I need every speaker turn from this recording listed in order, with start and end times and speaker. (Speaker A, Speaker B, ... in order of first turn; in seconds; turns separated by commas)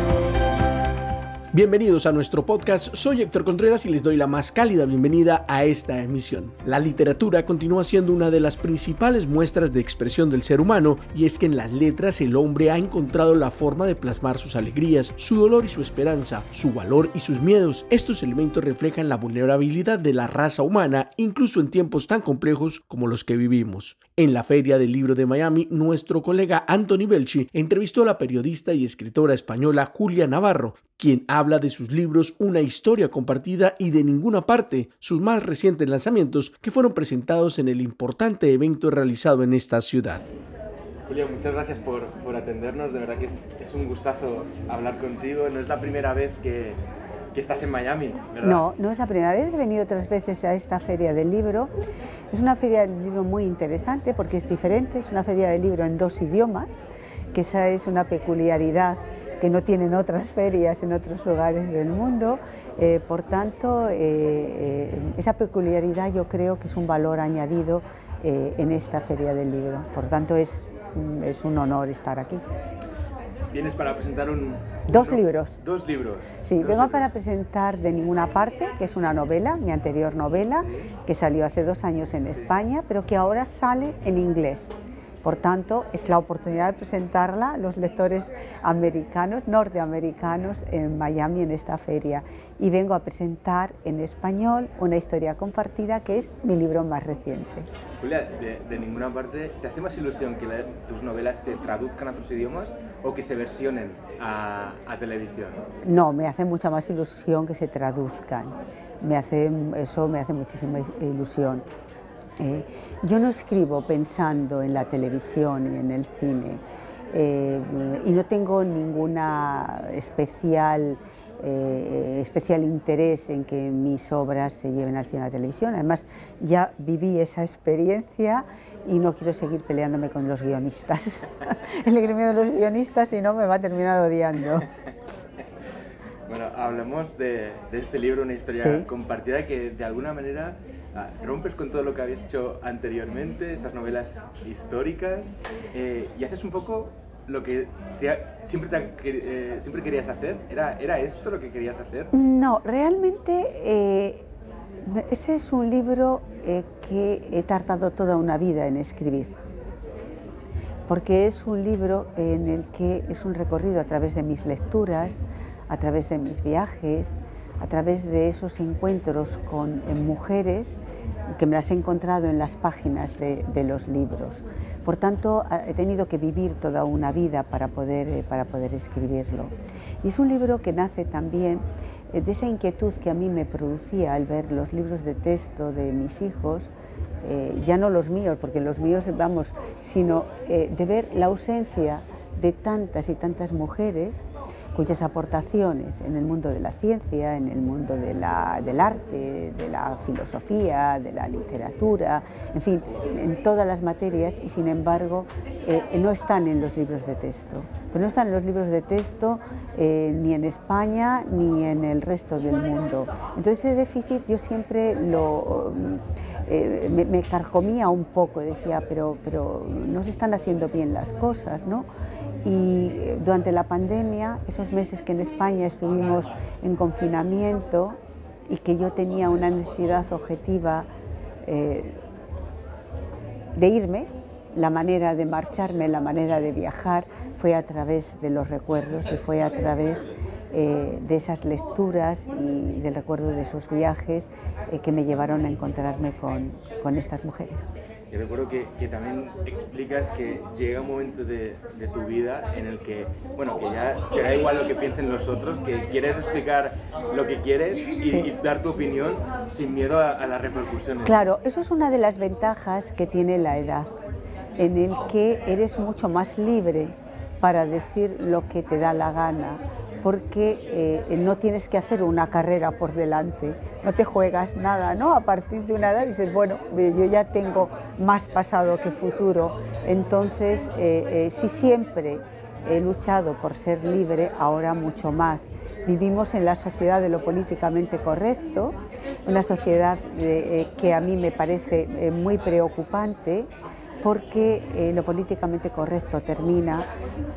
Speaker A: 1.5-40.3, Speaker B: 41.1-46.8, Speaker B: 47.3-48.6, Speaker C: 48.4-51.7, Speaker C: 52.3-72.4, Speaker B: 73.5-77.1, Speaker C: 74.9-75.6, Speaker C: 76.4-97.7, Speaker B: 98.0-105.6, Speaker C: 105.8-111.7, Speaker C: 112.4-134.7, Speaker B: 136.3-152.1, Speaker C: 138.5-138.9, Speaker C: 152.1-154.3, Speaker C: 154.8-159.3, Speaker C: 160.9-170.8, Speaker C: 171.3-186.7, Speaker C: 187.2-221.9, Speaker C: 222.4-230.9, Speaker C: 231.4-232.0, Speaker C: 233.6-247.7, Speaker B: 248.1-261.2, Speaker C: 261.0-263.9, Speaker C: 264.6-293.5, Speaker C: 294.0-296.9